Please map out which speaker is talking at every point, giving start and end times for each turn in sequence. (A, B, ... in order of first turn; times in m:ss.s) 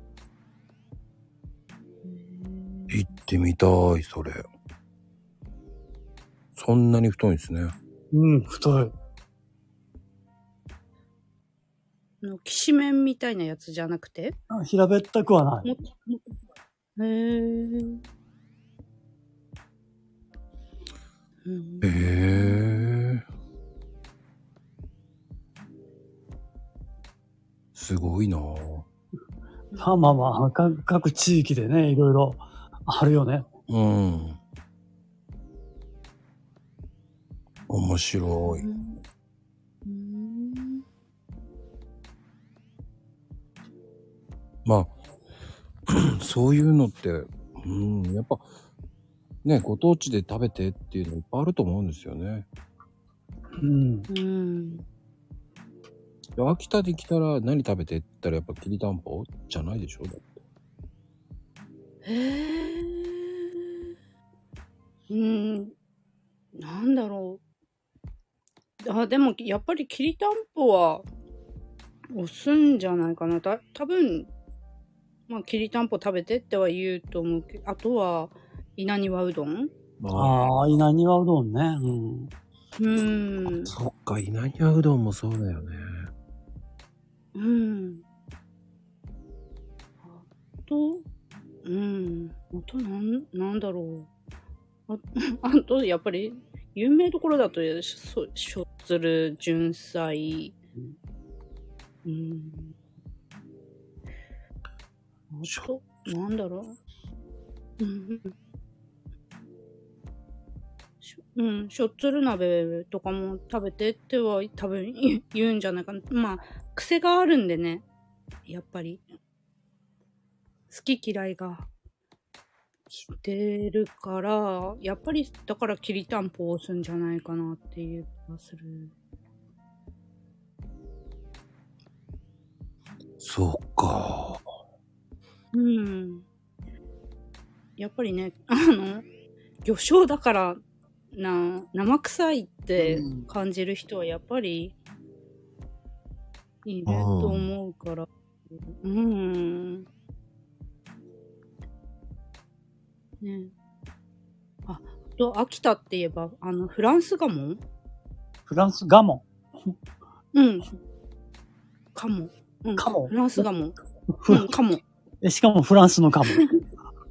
0:02.0-0:03.0 A
0:02.9-0:04.4 B
0:06.6-0:07.7 B
0:08.1-0:08.9 C
0:12.2-0:14.4 A
0:14.5-0:15.7 C
0:15.6-0:16.2 A
0:17.0-0:18.0 A
0:21.4-0:22.9 A
0:21.8-0:23.2 B
0:27.8-0:28.9 B
0:29.7-0:30.4 A
0:29.8-0:33.5 C
0:33.7-0:34.4 B
0:37.7-0:38.7 B
0:38.4-0:39.0 A
0:39.8-0:40.8 A
0:44.6-0:44.9 B
0:45.9-0:48.4 B
0:49.4-0:52.5 B
0:53.6-0:54.1 C
0:54.1-0:54.8 A
0:56.4-1:00.3 B
1:02.0-1:03.7 A
1:05.1-1:05.7 A
1:06.6-1:07.4 A
1:08.8-1:11.0 A
1:12.1-1:14.3 A
1:15.3-1:19.7 A
1:20.0-1:20.6 B
1:20.1-1:22.3 C
1:22.8-1:23.7 A
1:23.5-1:26.1 B
1:27.4-1:28.0 A
1:30.0-1:31.0 A
1:31.6-1:34.1 A
1:34.9-1:40.6 A
1:42.0-1:42.8 A
1:45.3-1:46.8 A
1:47.8-1:48.3 A
1:51.0-1:57.8 A
1:58.5-1:59.0 A
2:00.7-2:01.7 A
2:02.9-2:08.9 A
2:13.2-2:14.4 B
2:15.5-2:16.2 A
2:17.8-2:19.0 A
2:19.6-2:20.6 A
2:21.1-2:24.8 A
2:22.8-2:23.3 C
2:26.6-2:28.1 A
2:26.9-2:27.5 B
2:28.7-2:29.9 A
2:33.2-2:33.5 A
2:34.7-2:37.6 A
2:38.5-2:39.8 C
2:40.3-2:40.7 A
2:42.0-2:43.8 A
2:42.8-2:43.4 C
2:44.1-2:44.5 C
2:44.3-2:44.8 A
2:45.2-2:46.5 C
2:46.3-2:46.6 A